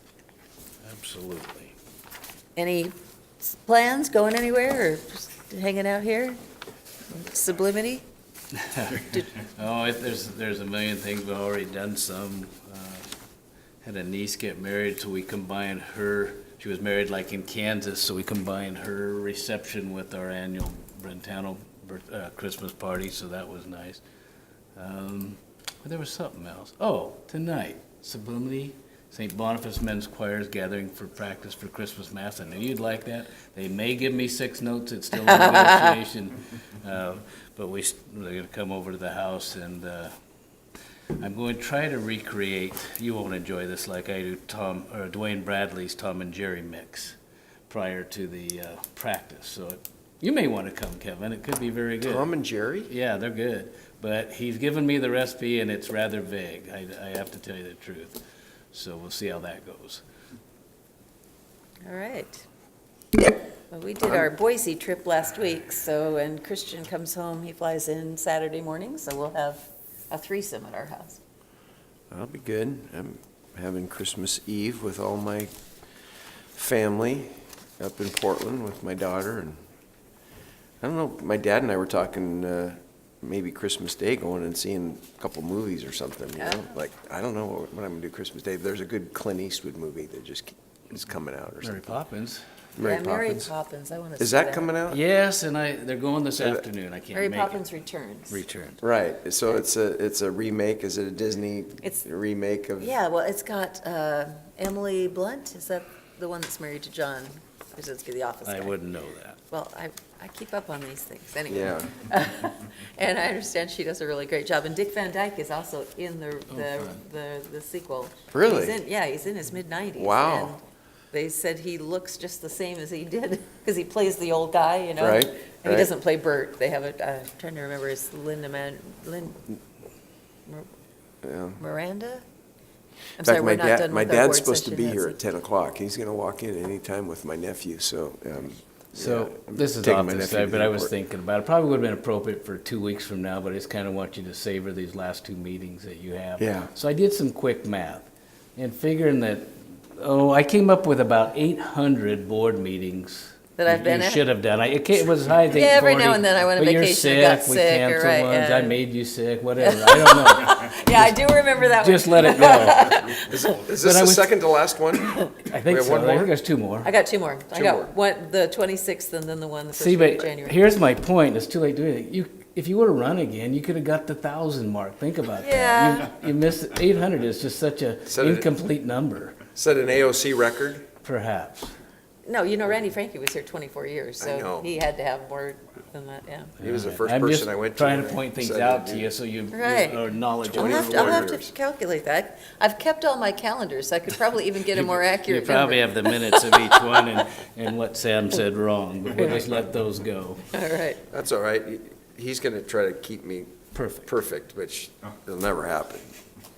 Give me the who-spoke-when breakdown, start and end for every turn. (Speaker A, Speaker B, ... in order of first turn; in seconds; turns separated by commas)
Speaker A: 0.8-1.7, Speaker B: 2.5-6.4, Speaker B: 7.1-8.0, Speaker A: 8.7-13.1, Speaker A: 13.8-24.0, Speaker A: 24.8-40.1, Speaker B: 35.2-36.0, Speaker A: 41.2-47.1, Speaker A: 47.7-52.2, Speaker C: 52.0-52.9, Speaker A: 52.9-58.2, Speaker A: 58.7-60.0, Speaker B: 61.8-62.4, Speaker B: 63.7-71.2, Speaker C: 72.1-75.5, Speaker C: 76.5-79.6, Speaker C: 80.8-91.9, Speaker A: 91.6-92.4, Speaker C: 92.8-93.5, Speaker B: 92.8-94.7, Speaker C: 94.2-95.0, Speaker A: 94.9-97.6, Speaker B: 97.1-98.4, Speaker A: 98.3-98.8, Speaker C: 98.8-102.9, Speaker B: 102.8-108.7, Speaker A: 108.5-109.4, Speaker B: 109.5-120.6, Speaker C: 111.5-111.9, Speaker A: 116.5-116.9, Speaker C: 118.3-118.7, Speaker C: 120.0-120.5, Speaker B: 121.1-129.4, Speaker C: 125.0-125.9, Speaker C: 131.2-131.6, Speaker B: 131.6-132.2, Speaker B: 133.2-135.2, Speaker C: 133.2-140.9, Speaker A: 138.9-161.1, Speaker C: 146.4-146.7, Speaker B: 153.6-154.2, Speaker B: 155.5-158.8, Speaker B: 159.6-163.3, Speaker A: 161.6-164.3, Speaker C: 163.0-166.3, Speaker A: 165.3-166.9, Speaker B: 166.8-170.6, Speaker C: 167.5-167.9, Speaker A: 169.7-179.4, Speaker B: 175.4-176.1, Speaker C: 178.1-178.5, Speaker C: 179.5-180.9, Speaker A: 181.0-181.7, Speaker B: 182.2-186.6, Speaker C: 184.2-184.7, Speaker C: 186.6-189.1, Speaker A: 186.6-191.3, Speaker B: 189.5-197.0, Speaker C: 190.5-191.5, Speaker A: 194.7-200.4, Speaker B: 200.5-201.0, Speaker C: 201.1-206.2, Speaker A: 203.7-204.1